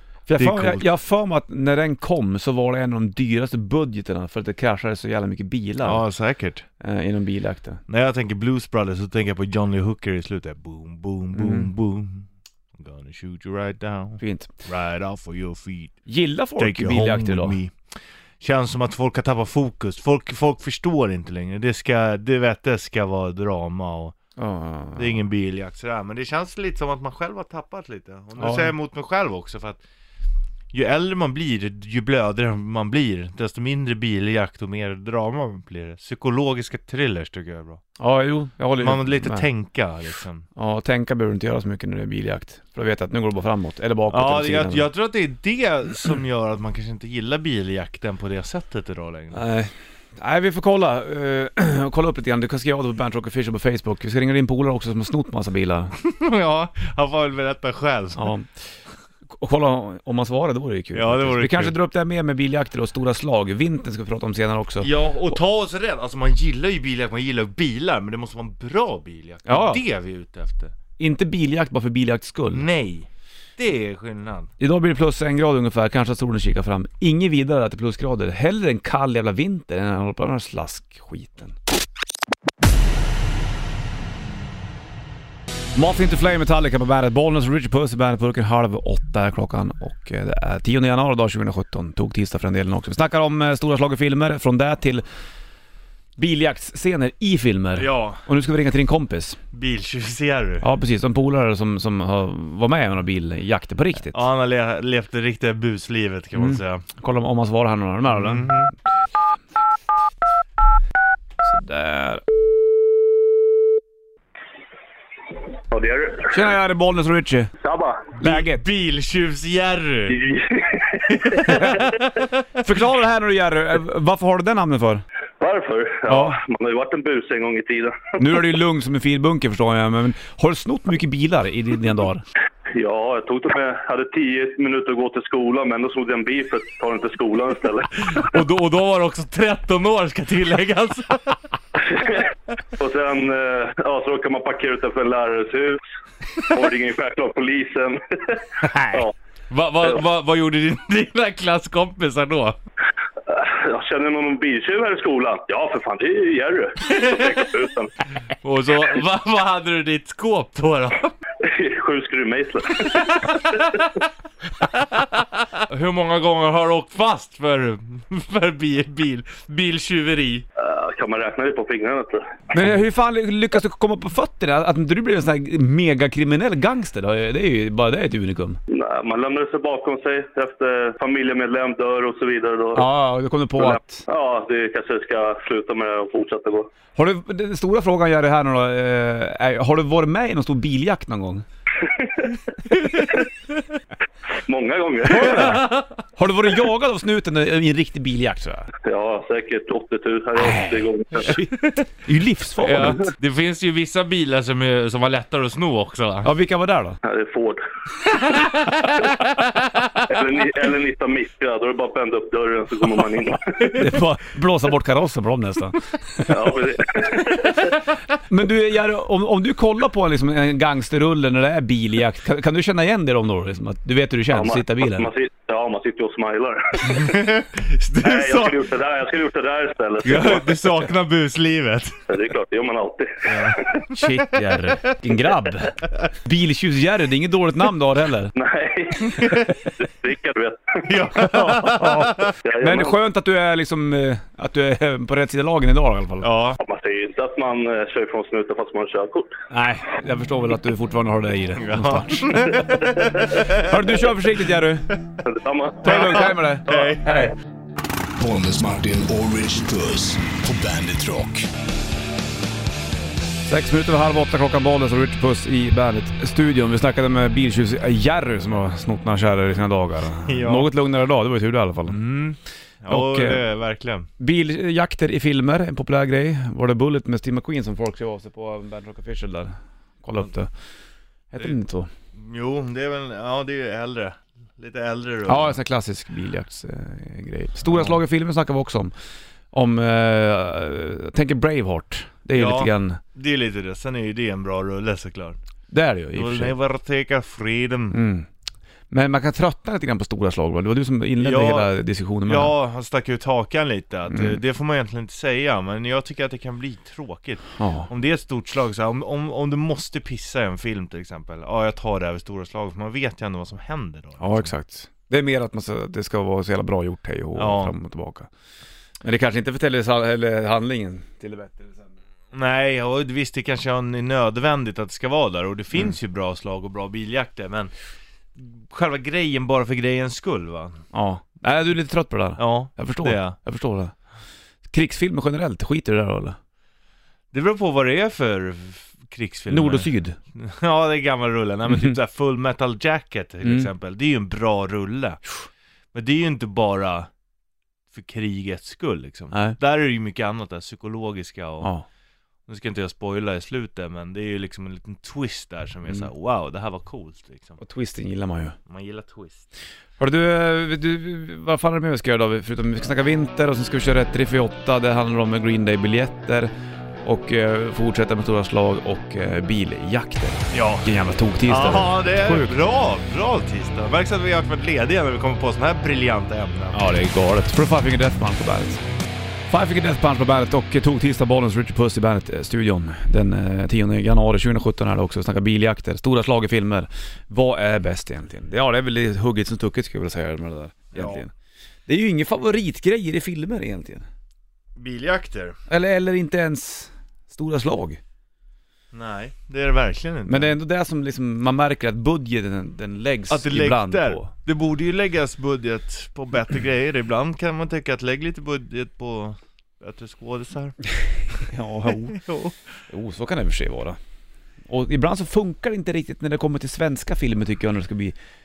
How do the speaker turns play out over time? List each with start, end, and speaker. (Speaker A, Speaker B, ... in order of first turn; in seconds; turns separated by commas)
Speaker A: 0.3-6.0, Speaker B: 0.4-0.9, Speaker B: 5.8-6.7, Speaker A: 6.8-7.8, Speaker B: 7.9-16.0, Speaker A: 11.3-11.7, Speaker A: 14.2-14.5, Speaker A: 16.1-17.6, Speaker B: 16.6-24.1, Speaker A: 24.4-25.2, Speaker B: 25.0-29.8, Speaker A: 28.4-28.7, Speaker B: 30.7-37.8, Speaker A: 38.0-39.5, Speaker B: 38.8-40.5, Speaker A: 40.6-44.9, Speaker B: 44.1-49.4, Speaker A: 49.3-56.0, Speaker B: 56.0-58.2, Speaker A: 58.2-58.7, Speaker A: 59.3-64.9, Speaker B: 60.9-61.8, Speaker B: 64.8-70.7, Speaker A: 69.5-69.8, Speaker A: 71.0-72.7, Speaker B: 72.5-74.5, Speaker A: 74.6-81.5, Speaker A: 85.8-95.0, Speaker A: 96.2-99.4, Speaker B: 97.8-98.2, Speaker B: 99.5-100.7, Speaker A: 100.6-104.2, Speaker B: 104.1-106.8, Speaker A: 106.4-108.5, Speaker B: 108.1-108.7, Speaker A: 111.4-112.2, Speaker C: 115.7-116.3, Speaker A: 116.3-117.5, Speaker C: 117.6-118.1, Speaker B: 118.2-120.2, Speaker A: 118.2-118.6, Speaker C: 120.1-121.2, Speaker B: 121.1-122.4, Speaker A: 121.5-122.0, Speaker A: 122.6-125.0, Speaker C: 125.4-128.2, Speaker A: 126.1-126.4, Speaker A: 128.2-132.2, Speaker C: 132.8-138.1, Speaker B: 138.0-141.4, Speaker C: 141.8-145.8, Speaker C: 146.4-149.1, Speaker B: 149.5-152.6, Speaker C: 153.3-157.9, Speaker B: 156.8-157.5, Speaker B: 158.4-161.2, Speaker C: 161.4-163.4, Speaker B: 162.9-163.9, Speaker B: 164.6-170.4, Speaker C: 170.6-172.3, Speaker A: 172.5-178.6, Speaker C: 178.7-182.8, Speaker A: 182.8-184.0, Speaker C: 183.6-186.7, Speaker A: 186.9-191.4, Speaker C: 191.8-192.3, Speaker C: 194.4-195.6, Speaker A: 195.1-198.7, Speaker B: 195.4-195.8, Speaker C: 198.8-201.4, Speaker A: 200.4-203.1, Speaker B: 202.6-206.3, Speaker A: 206.2-207.0, Speaker C: 207.0-207.6, Speaker B: 208.2-209.1, Speaker C: 210.1-213.7, Speaker A: 213.8-216.3, Speaker C: 216.3-217.8, Speaker A: 218.3-225.1, Speaker C: 224.3-227.0, Speaker B: 226.8-228.7, Speaker C: 228.0-230.6, Speaker B: 230.0-232.1, Speaker C: 232.1-233.8, Speaker B: 233.3-234.8, Speaker A: 233.9-238.3, Speaker C: 238.3-240.9, Speaker B: 240.8-242.3, Speaker A: 241.2-246.3, Speaker C: 242.4-242.9, Speaker B: 246.2-246.6, Speaker C: 246.6-249.4, Speaker A: 249.5-252.8, Speaker B: 251.6-254.1, Speaker A: 253.5-254.9, Speaker C: 255.2-256.3, Speaker A: 255.8-257.3, Speaker B: 255.8-257.3, Speaker D: 258.2-261.5, Speaker A: 263.5-272.0, Speaker B: 270.2-270.7, Speaker B: 271.9-274.1, Speaker A: 272.9-273.4, Speaker A: 274.2-280.5, Speaker A: 281.3-281.9, Speaker B: 282.1-285.6, Speaker A: 285.3-288.9, Speaker B: 287.7-288.0, Speaker A: 289.5-293.0, Speaker B: 292.3-295.4, Speaker A: 295.7-296.6, Speaker B: 296.1-298.0, Speaker A: 297.9-298.3, Speaker A: 298.9-302.5, Speaker B: 301.2-301.7, Speaker B: 302.3-314.5, Speaker A: 304.1-304.4, Speaker A: 307.6-307.9, Speaker A: 314.2-318.3, Speaker B: 317.4-317.7, Speaker A: 319.0-321.9, Speaker B: 322.3-327.7, Speaker B: 328.4-330.8, Speaker A: 330.9-333.9, Speaker B: 332.4-333.4, Speaker A: 334.7-336.4, Speaker B: 337.3-345.2, Speaker A: 339.5-340.2, Speaker A: 343.4-343.7, Speaker B: 345.9-347.1, Speaker B: 347.9-351.7, Speaker A: 349.3-349.6, Speaker A: 351.6-351.9, Speaker B: 352.5-357.6, Speaker A: 357.6-358.6, Speaker B: 358.7-359.5, Speaker A: 360.0-366.5, Speaker A: 367.0-372.5, Speaker B: 370.5-370.9, Speaker B: 371.5-376.8, Speaker A: 376.7-378.8, Speaker A: 379.5-391.3, Speaker B: 390.9-391.2, Speaker A: 391.9-394.1, Speaker B: 394.8-395.6, Speaker A: 395.7-398.0, Speaker B: 398.9-400.6, Speaker A: 400.3-404.3, Speaker B: 403.3-410.8, Speaker A: 411.4-412.2, Speaker B: 412.1-412.6, Speaker A: 412.9-414.0, Speaker A: 414.7-418.1